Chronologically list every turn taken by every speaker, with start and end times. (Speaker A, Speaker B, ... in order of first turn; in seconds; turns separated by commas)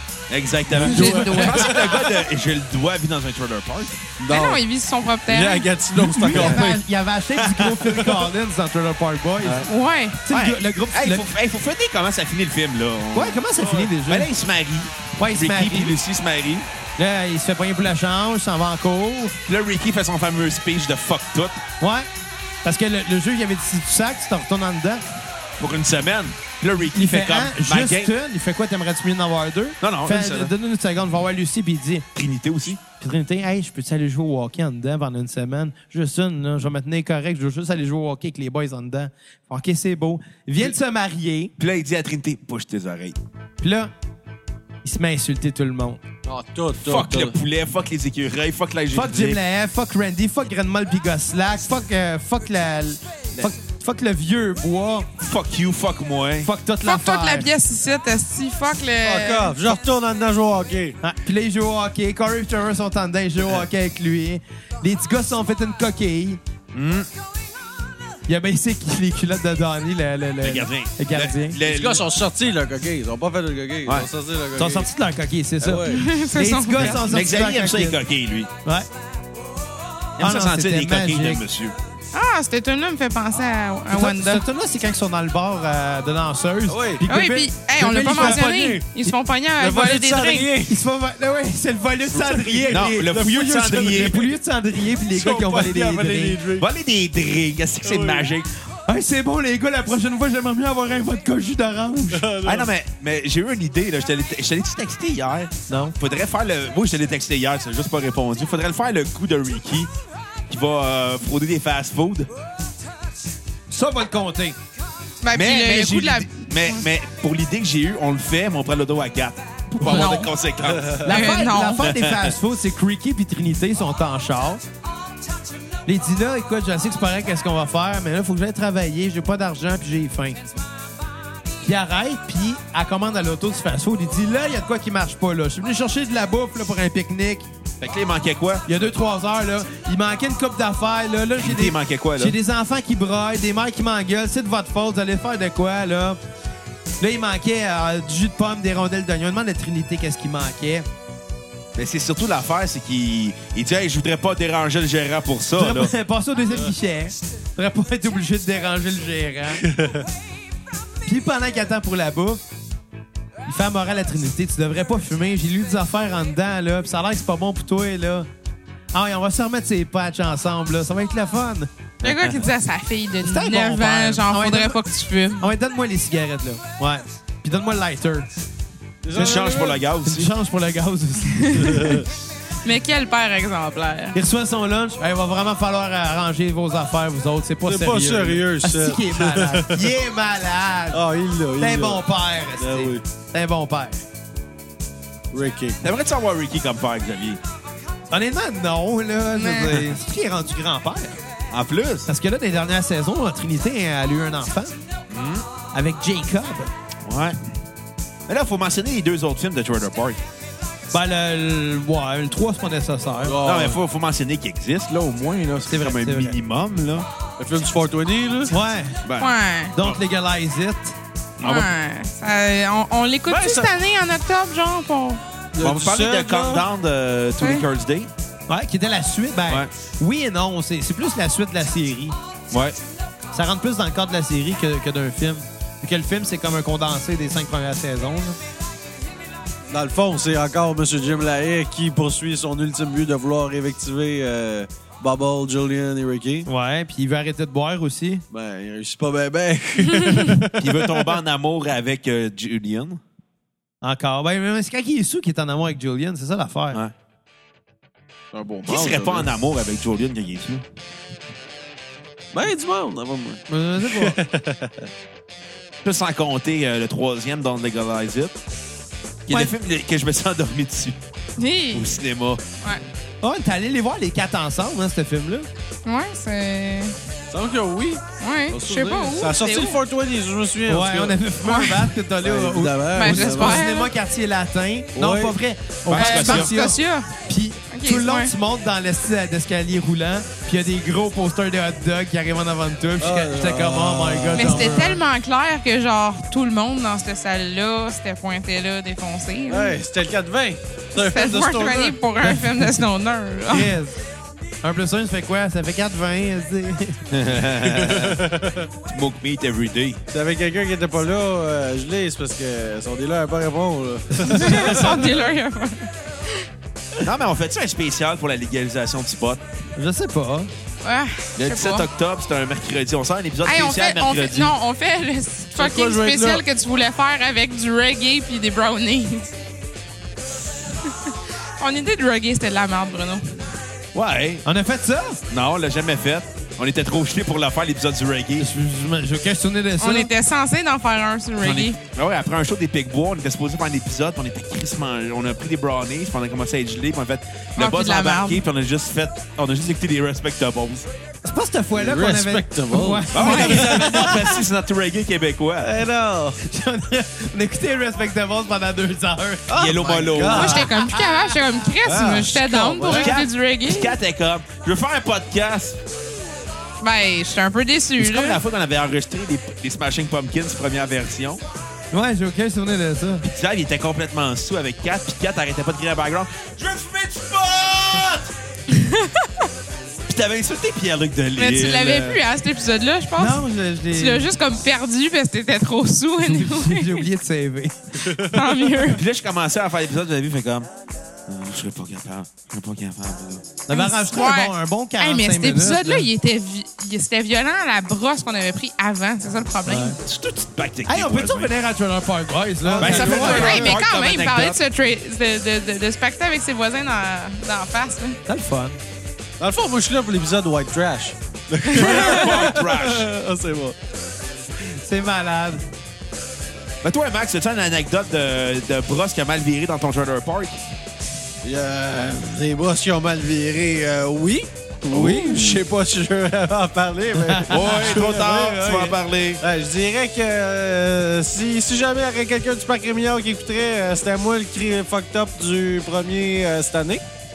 Speaker A: 0.3-4.0, Speaker B: 0.7-2.2, Speaker C: 0.7-1.8, Speaker B: 4.2-4.6, Speaker D: 4.3-5.7, Speaker B: 5.3-6.8, Speaker C: 5.9-9.7, Speaker A: 6.3-6.6, Speaker A: 7.3-8.2, Speaker A: 9.4-9.7, Speaker D: 9.7-10.2, Speaker C: 10.2-11.3, Speaker A: 10.3-16.7, Speaker C: 13.1-14.3, Speaker C: 15.2-16.0, Speaker C: 17.0-19.4, Speaker A: 19.5-21.6, Speaker C: 21.8-22.1, Speaker C: 22.6-25.0, Speaker A: 25.6-28.1, Speaker C: 26.9-32.1, Speaker A: 29.8-30.5, Speaker A: 32.1-32.8, Speaker C: 33.0-41.5, Speaker A: 41.6-43.2, Speaker C: 43.6-43.9, Speaker C: 44.8-46.0, Speaker B: 46.3-47.4, Speaker A: 46.8-49.4, Speaker C: 48.9-55.1, Speaker A: 55.2-56.5, Speaker C: 56.4-57.5, Speaker D: 56.8-59.6, Speaker B: 59.0-61.0, Speaker C: 61.0-66.4, Speaker A: 66.7-67.1, Speaker C: 68.3-71.6, Speaker A: 70.4-72.0, Speaker B: 71.6-74.9, Speaker C: 74.6-78.0, Speaker B: 75.6-76.0, Speaker D: 75.8-77.1, Speaker A: 76.8-78.5, Speaker A: 80.2-81.8, Speaker C: 80.2-81.4, Speaker D: 82.1-84.4, Speaker C: 83.9-89.1, Speaker B: 86.7-87.1, Speaker D: 87.1-90.5, Speaker B: 88.1-88.5, Speaker B: 89.6-90.8, Speaker C: 90.7-96.4, Speaker B: 92.2-94.1, Speaker A: 92.7-94.2, Speaker B: 95.1-96.7, Speaker A: 96.6-98.5, Speaker B: 97.8-98.3, Speaker C: 98.9-102.2, Speaker B: 102.1-102.7, Speaker A: 102.4-109.9, Speaker C: 105.7-106.0, Speaker A: 110.5-112.3, Speaker C: 113.7-114.6, Speaker D: 115.2-116.8, Speaker A: 115.3-121.1, Speaker D: 119.8-120.3, Speaker B: 120.7-121.0, Speaker C: 121.0-124.6, Speaker D: 121.0-121.9, Speaker A: 121.8-122.3, Speaker C: 125.9-130.4, Speaker C: 131.6-137.5, Speaker A: 137.8-138.6, Speaker C: 138.7-146.2, Speaker A: 141.4-142.4, Speaker C: 147.0-150.9, Speaker A: 151.8-155.9, Speaker C: 155.6-159.6, Speaker B: 159.6-160.1, Speaker C: 161.1-162.4, Speaker C: 163.5-168.3, Speaker C: 168.9-171.7, Speaker A: 172.0-172.5, Speaker D: 172.0-175.5, Speaker C: 173.2-174.8, Speaker C: 175.4-178.3, Speaker B: 179.0-179.8, Speaker A: 179.1-180.3, Speaker C: 179.2-179.5, Speaker C: 180.0-182.0, Speaker D: 181.6-181.9, Speaker D: 182.6-184.2, Speaker C: 184.1-191.0, Speaker B: 187.7-189.9, Speaker B: 190.9-192.0, Speaker C: 191.6-194.0, Speaker B: 192.6-193.0, Speaker B: 195.3-195.8, Speaker A: 195.8-197.4, Speaker C: 198.1-201.2, Speaker D: 199.3-199.8, Speaker A: 201.5-202.1, Speaker C: 202.1-204.8, Speaker A: 205.1-205.5, Speaker C: 205.7-206.7, Speaker A: 207.1-207.4, Speaker A: 208.3-210.2, Speaker C: 210.9-213.4, Speaker B: 213.2-213.8, Speaker A: 213.4-217.1, Speaker C: 215.7-216.4, Speaker B: 217.4-218.5, Speaker C: 218.5-219.0, Speaker A: 219.0-220.0, Speaker D: 219.2-219.7, Speaker C: 219.7-221.0, Speaker A: 221.4-221.7, Speaker D: 221.4-225.2, Speaker B: 223.3-223.7, Speaker B: 225.6-226.6, Speaker A: 225.6-228.1, Speaker D: 227.4-227.6, Speaker C: 228.5-232.2, Speaker A: 232.5-232.8, Speaker C: 233.3-238.4, Speaker B: 239.7-246.5, Speaker C: 246.5-248.2, Speaker B: 248.3-251.1, Speaker A: 250.6-253.0, Speaker C: 253.8-256.8, Speaker B: 258.3-259.3, Speaker A: 258.7-260.6, Speaker B: 262.3-264.9, Speaker C: 263.5-264.2, Speaker A: 265.8-268.4, Speaker A: 269.3-271.0, Speaker D: 271.4-271.9, Speaker A: 271.7-272.4, Speaker C: 273.2-275.5, Speaker D: 275.9-276.9, Speaker B: 277.3-281.2, Speaker D: 278.2-279.8, Speaker C: 280.7-295.0, Speaker D: 281.4-281.9, Speaker B: 282.2-283.6, Speaker D: 282.9-283.9, Speaker B: 285.0-285.4, Speaker A: 285.9-286.6, Speaker D: 285.9-287.1, Speaker D: 287.7-288.3, Speaker B: 293.0-294.8, Speaker D: 294.3-299.8, Speaker B: 299.5-302.0, Speaker D: 300.9-303.7, Speaker C: 303.5-304.0, Speaker C: 304.6-307.0, Speaker A: 307.1-308.2, Speaker B: 307.6-308.7, Speaker A: 308.9-310.0, Speaker B: 310.1-315.2, Speaker D: 314.3-316.5, Speaker A: 317.0-319.4, Speaker C: 319.8-320.5, Speaker D: 320.8-321.9, Speaker A: 321.4-324.5, Speaker D: 323.4-329.3, Speaker B: 325.6-326.4, Speaker D: 330.8-333.3, Speaker A: 333.9-334.4, Speaker C: 334.4-335.2, Speaker A: 335.3-338.5, Speaker C: 338.4-340.1, Speaker D: 339.8-341.8, Speaker A: 341.4-350.9, Speaker D: 347.6-348.4, Speaker C: 351.2-354.4, Speaker B: 351.8-354.1, Speaker A: 353.1-355.8, Speaker D: 353.2-353.6, Speaker B: 355.6-356.4, Speaker C: 356.4-361.4, Speaker B: 359.5-360.8, Speaker A: 359.5-360.6, Speaker D: 360.3-363.9, Speaker B: 361.8-363.1, Speaker A: 362.9-365.8, Speaker D: 366.8-368.4, Speaker A: 368.0-371.4, Speaker C: 371.9-373.2, Speaker A: 373.2-378.3, Speaker D: 378.7-379.3, Speaker A: 380.1-382.2, Speaker D: 381.4-387.1, Speaker C: 383.2-384.2, Speaker C: 386.2-387.8, Speaker B: 388.0-388.7, Speaker D: 388.3-389.0, Speaker A: 388.9-390.7, Speaker A: 391.3-393.5, Speaker C: 393.7-396.1, Speaker D: 393.7-400.0, Speaker C: 399.7-400.0, Speaker A: 400.0-401.5, Speaker C: 400.9-403.8, Speaker B: 402.6-403.5, Speaker A: 402.8-404.6, Speaker D: 402.9-408.2, Speaker C: 408.3-408.8, Speaker B: 409.4-413.8, Speaker A: 411.7-413.1, Speaker C: 414.6-415.6, Speaker A: 416.8-420.6, Speaker B: 421.4-437.1, Speaker A: 424.9-425.6, Speaker C: 427.2-428.1, Speaker A: 427.5-429.4